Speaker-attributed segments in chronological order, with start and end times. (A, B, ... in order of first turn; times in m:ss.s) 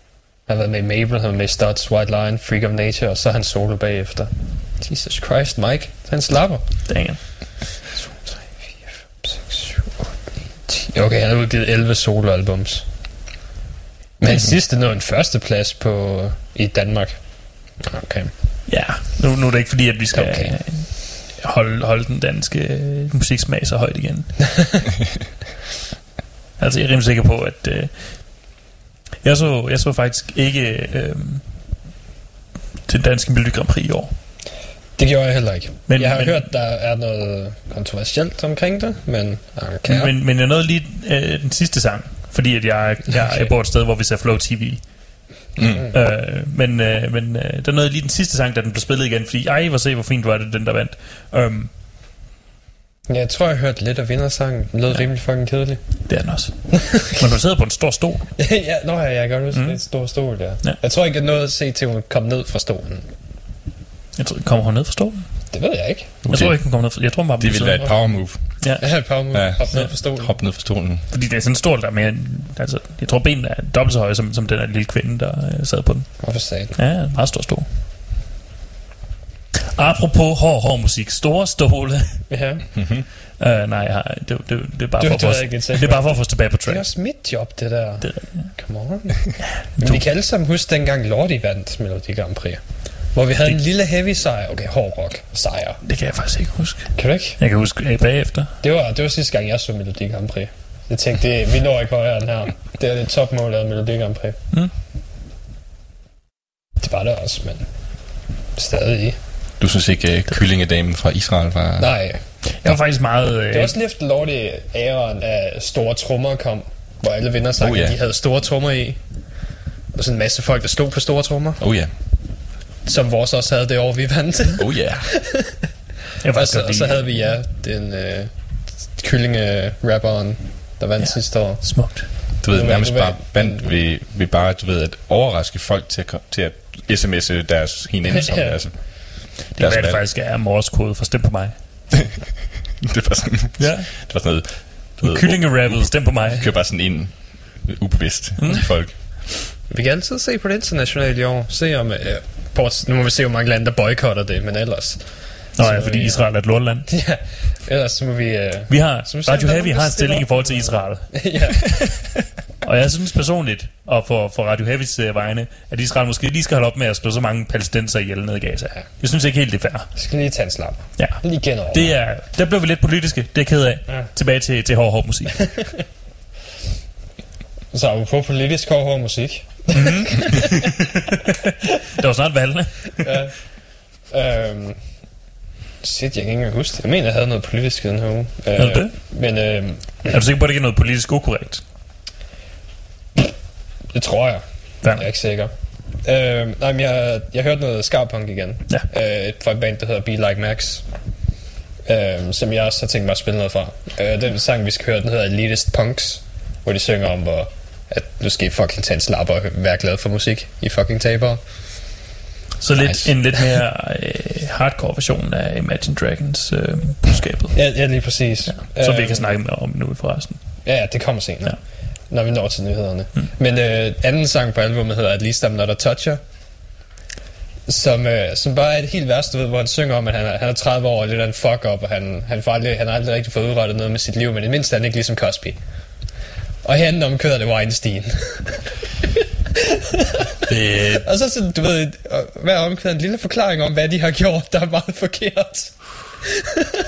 0:00.5-0:07.1 A
0:06.9-0:07.6 B
0:08.2-0:12.8 A
0:14.2-0:18.3 A
0:18.7-0:24.6 B
0:20.1-0:20.6 A
0:26.6-0:28.6 B
0:29.2-0:31.7 B
0:32.9-0:34.1 B
0:35.0-0:40.1 A
0:35.9-0:36.5 B
0:39.8-0:51.7 B
0:45.6-0:45.9 C
0:53.1-0:56.3 A
0:56.0-0:58.5 B
0:58.4-1:03.1 A
0:59.5-1:00.8 B
1:04.2-1:05.5 B
1:05.5-1:06.2 A
1:06.2-1:09.9 B
1:06.3-1:11.0 C
1:08.5-1:10.3 A
1:11.1-1:17.7 B
1:16.2-1:16.7 A
1:19.7-1:22.8 B
1:22.3-1:22.6 A
1:22.8-1:23.0 C
1:23.4-1:26.9 B
1:25.0-1:35.8 A
1:28.0-1:28.5 B
1:29.4-1:30.0 B
1:35.8-1:38.6 B
1:36.9-1:37.4 A
1:38.6-1:44.4 A
1:46.8-1:49.2 A
1:49.6-1:52.8 C
1:51.8-1:52.2 A
1:52.6-1:53.8 B
1:53.5-2:01.9 A
1:57.6-1:58.0 C
2:01.6-2:01.9 C
2:02.8-2:05.5 A
2:04.6-2:05.3 C
2:06.2-2:07.3 B
2:06.3-2:13.7 A
2:11.0-2:12.1 B
2:12.4-2:20.0 C
2:18.1-2:18.6 A
2:19.5-2:21.6 B
2:22.8-2:29.3 C
2:23.6-2:24.5 B
2:25.0-2:26.4 B
2:28.4-2:28.7 B
2:29.7-2:41.8 A
2:35.6-2:36.9 B
2:38.7-2:41.2 B
2:42.6-2:50.0 B
2:49.9-2:51.9 A
2:51.0-2:55.8 B
2:57.7-3:00.3 A
2:59.7-3:00.8 B
3:02.0-3:03.2 B
3:03.0-3:05.0 A
3:05.8-3:10.1 A
3:08.6-3:08.9 B
3:10.1-3:11.6 B
3:13.9-3:20.9 A
3:14.8-3:15.1 B
3:21.8-3:31.4 A
3:32.6-3:40.7 B
3:32.8-3:33.1 C
3:37.5-3:39.3 A
3:40.6-3:46.2 A
3:47.7-3:55.6 A
3:56.6-3:58.7 A
4:00.5-4:01.0 C
4:00.5-4:01.0 B
4:01.0-4:06.4 A